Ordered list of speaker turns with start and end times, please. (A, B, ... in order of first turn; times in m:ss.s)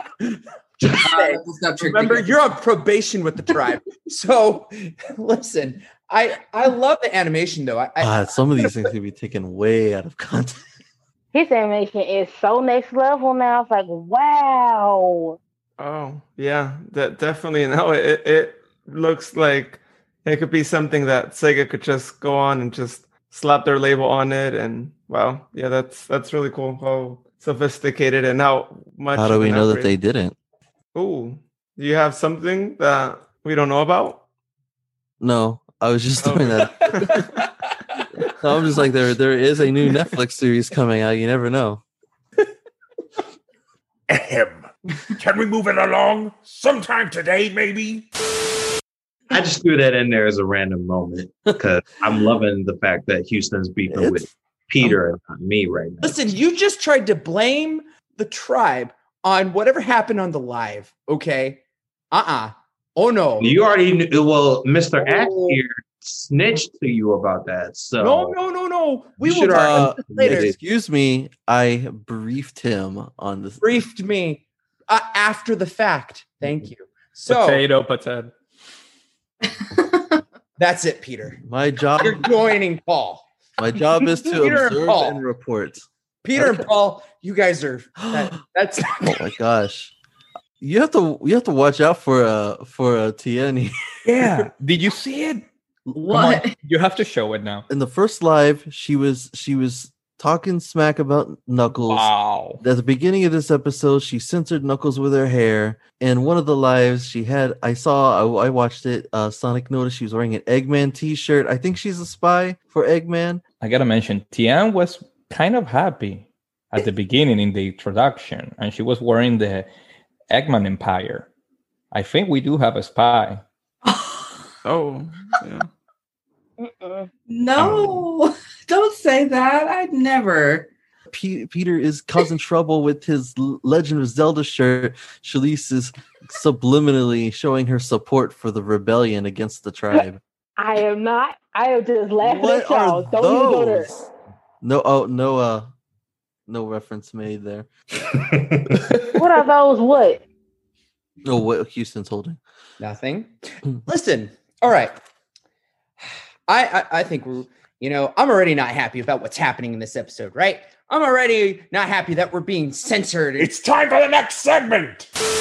0:00.2-0:08.9 A
0:00.9-0:02.4 B
0:08.0-0:10.6 C
0:11.3-0:15.4 D
0:15.8-0:29.9 E
0:29.1-0:30.3 C
0:30.9-0:34.2 E
0:35.2-0:37.3 C
0:36.2-0:37.4 E
0:38.3-0:41.8 C
0:44.1-0:48.1 F
0:49.3-0:56.2 G
0:53.9-0:54.3 C
0:56.0-1:03.6 A
1:03.4-1:08.4 G
1:04.9-1:05.6 A
1:08.0-1:10.5 A
1:09.2-1:10.5 G
1:09.5-1:13.6 C
1:13.6-1:17.6 A
1:17.2-1:18.3 H
1:20.6-1:21.4 A
1:21.4-1:22.3 C
1:22.0-1:23.3 A
1:23.6-1:26.6 C
1:24.2-1:25.2 A
1:26.2-1:29.2 A
1:29.0-1:29.9 C
1:30.6-1:33.7 C
1:34.0-1:35.4 H
1:35.9-1:36.6 B
1:36.1-1:37.6 H
1:37.7-1:53.4 C
1:41.9-1:42.6 H
1:53.6-1:59.7 H
2:00.3-2:01.3 H
2:01.9-2:03.4 H
2:03.8-2:04.3 B
2:04.6-2:05.7 E
2:06.6-2:07.1 D
2:07.3-2:10.7 B
2:07.6-2:08.0 G
2:11.1-2:20.2 C
2:20.6-2:23.9 D
2:22.2-2:24.1 C
2:24.6-2:25.7 C
2:26.5-2:27.7 C
2:28.0-2:28.8 G
2:29.1-2:30.2 D
2:31.2-2:32.4 C
2:32.8-2:33.3 A
2:33.8-2:35.0 A
2:36.5-2:43.5 A
2:43.4-2:45.1 F